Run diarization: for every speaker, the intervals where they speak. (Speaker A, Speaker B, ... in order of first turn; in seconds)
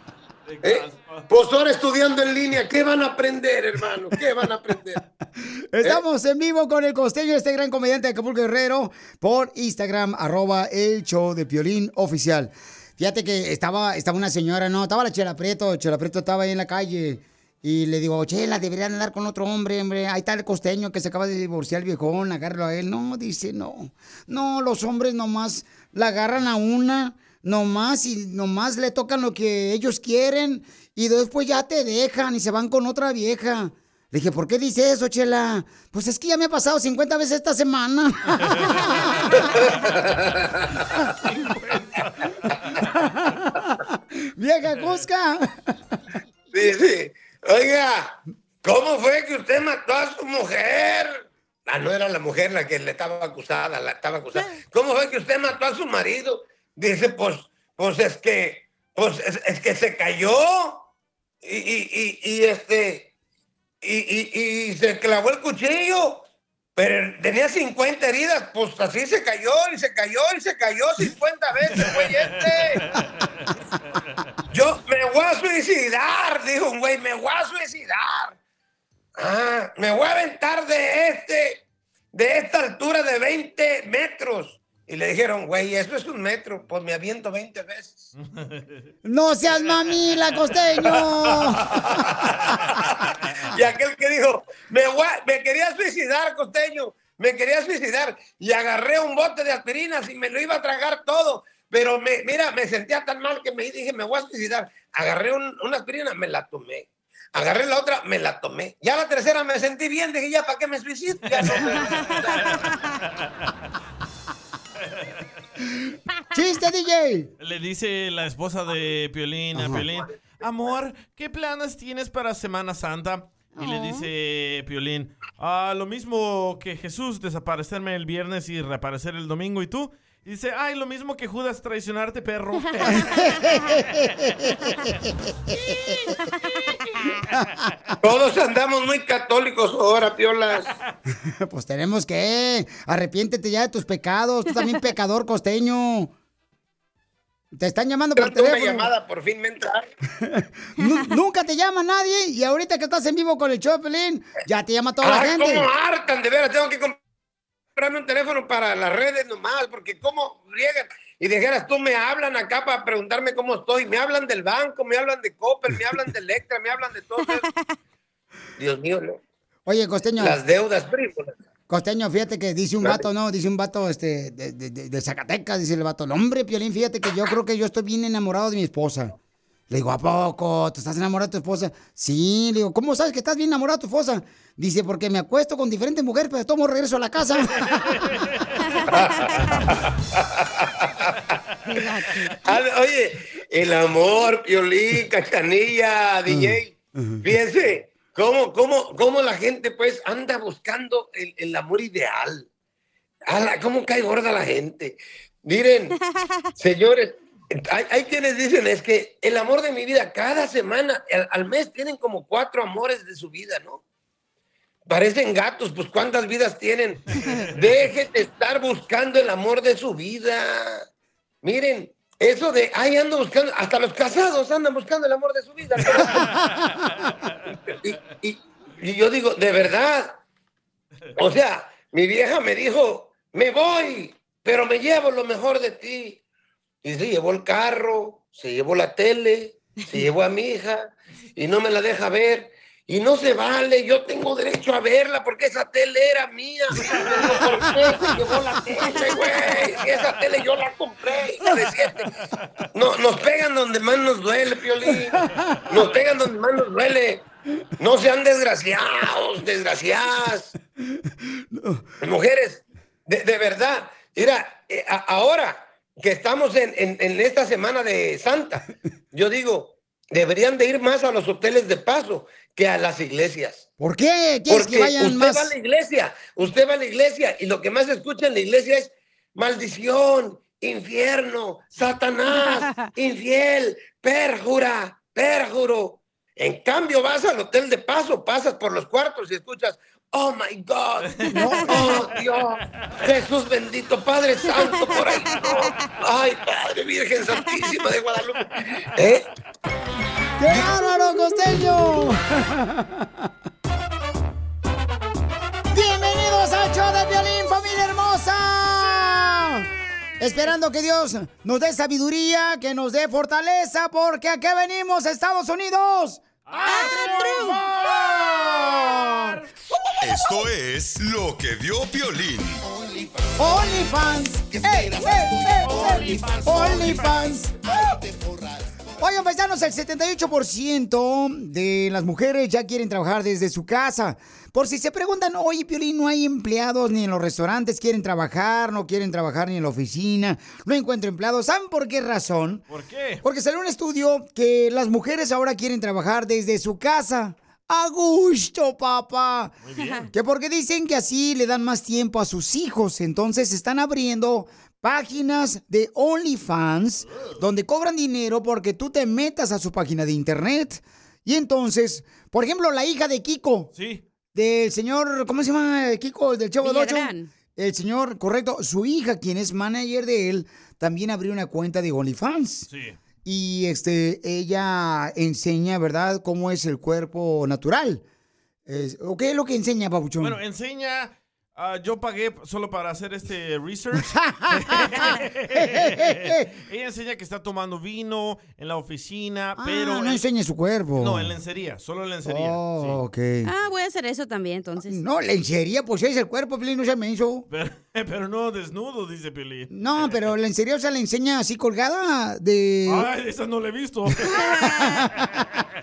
Speaker A: 0.5-1.3, 38.5-39.4, 41.3-42.3, 71.7-74.2, 88.2-88.8, 89.7-91.5, 111.2-112.6, 117.4-133.2, 187.8-188.4, 226.3-227.1, 291.1-292.1, 316.5-317.3, 318.7-319.2, 325.6-327.0, 342.7-343.2, 349.6-350.1, 363.7-364.0, 372.7-373.0, 380.2-390.2, 391.0-393.0, 397.5-400.3, 402.9-404.3
Speaker B: 0.6-5.0, 39.6-40.3, 46.5-60.9, 61.4-63.1, 63.8-72.7, 74.5-78.3, 79.2-88.1, 93.5-112.5, 138.0-140.7, 148.2-149.8, 155.0-156.9, 157.8-167.4, 168.6-169.2, 170.2-171.3, 188.9-189.3, 192.4-202.4, 203.3-205.9, 206.6-213.8, 214.8-217.0, 217.6-220.8, 221.4-226.3, 227.7-230.2, 231.2-236.2, 236.8-252.1, 252.7-257.2, 257.8-260.5, 262.0-273.6, 274.5-291.1, 291.6-299.3, 323.1-323.4
Speaker C: 5.0-39.7, 42.8-45.7, 89.0-91.7, 116.3-117.3, 119.5-119.8, 133.1-134.9, 137.3-137.6, 141.3-146.1, 147.5-148.9, 150.2-155.7, 169.7-170.4, 171.7-179.1, 179.7-188.1, 196.3-197.2, 247.3-247.9, 261.5-261.8, 273.8-275.5, 291.3-292.0, 300.4-303.1, 305.7-309.7, 310.2-319.4, 323.4-327.7, 329.0-342.6, 343.2-349.6, 350.1-363.7, 364.3-372.7, 373.2-378.0, 378.6-380.4, 384.1-385.0, 385.5-386.5, 389.6-391.3, 392.2-393.5, 394.9-397.4, 399.7-403.1, 404.3-405.4
Speaker D: 123.6-124.1, 167.2-167.6, 191.7-192.5, 294.9-295.7, 316.7-317.6, 349.8-350.1, 366.6-367.3, 393.4-395.0
Speaker E: 320.0-322.6